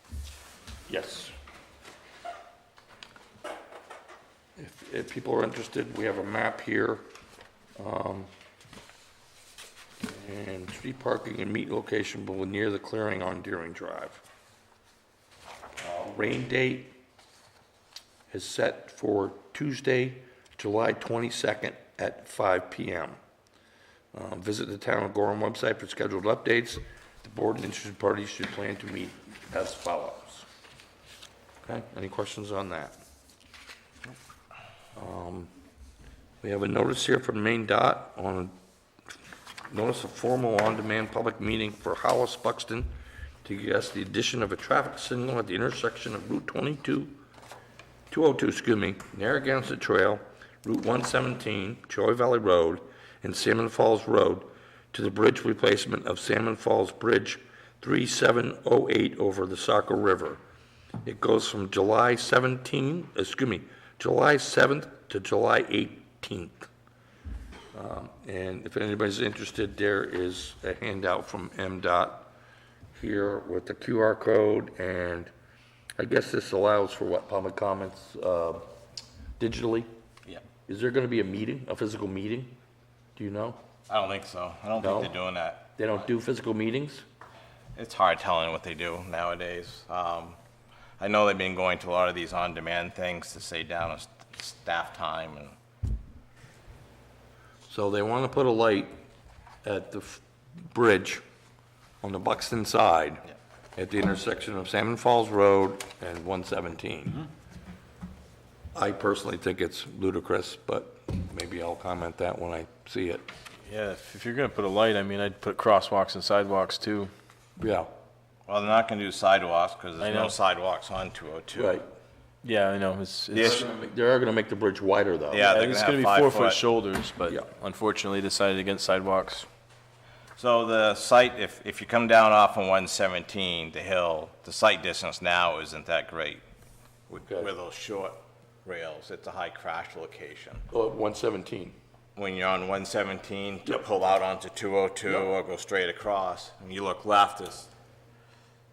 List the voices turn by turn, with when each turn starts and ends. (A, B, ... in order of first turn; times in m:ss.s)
0:00.9-0:01.3 A
0:04.6-0:07.0 A
0:07.8-0:08.3 A
0:10.0-0:14.2 A
0:15.8-0:16.9 A
0:18.3-0:23.2 A
0:24.1-0:30.5 A
0:31.7-0:33.0 A
0:35.0-0:35.5 A
0:36.4-0:38.5 A
0:39.7-0:42.9 A
0:43.4-0:47.2 A
0:48.1-1:00.4 A
1:01.0-1:06.7 A
1:07.7-1:12.3 A
1:13.0-1:15.3 A
1:16.0-1:18.6 A
1:19.4-1:19.9 A
1:20.7-1:22.6 A
1:23.2-1:23.6 A
1:23.9-1:25.8 B
1:24.8-1:25.2 A
1:25.8-1:27.0 A
1:27.8-1:30.4 B
1:31.0-1:35.6 B
1:37.7-1:38.9 A
1:39.6-1:41.2 A
1:42.0-1:43.2 A
1:43.8-1:47.3 A
1:48.8-1:53.2 A
1:53.7-1:57.1 C
1:57.6-1:57.9 A
1:58.5-2:01.8 B
2:00.0-2:00.4 C
2:01.5-2:01.9 A
2:02.4-2:03.6 C
2:03.3-2:03.6 B
2:03.4-2:05.5 A
2:05.3-2:06.6 B
2:05.4-2:09.5 C
2:10.4-2:16.4 B
2:17.1-2:20.7 B
2:20.7-2:21.8 A
2:22.2-2:27.7 B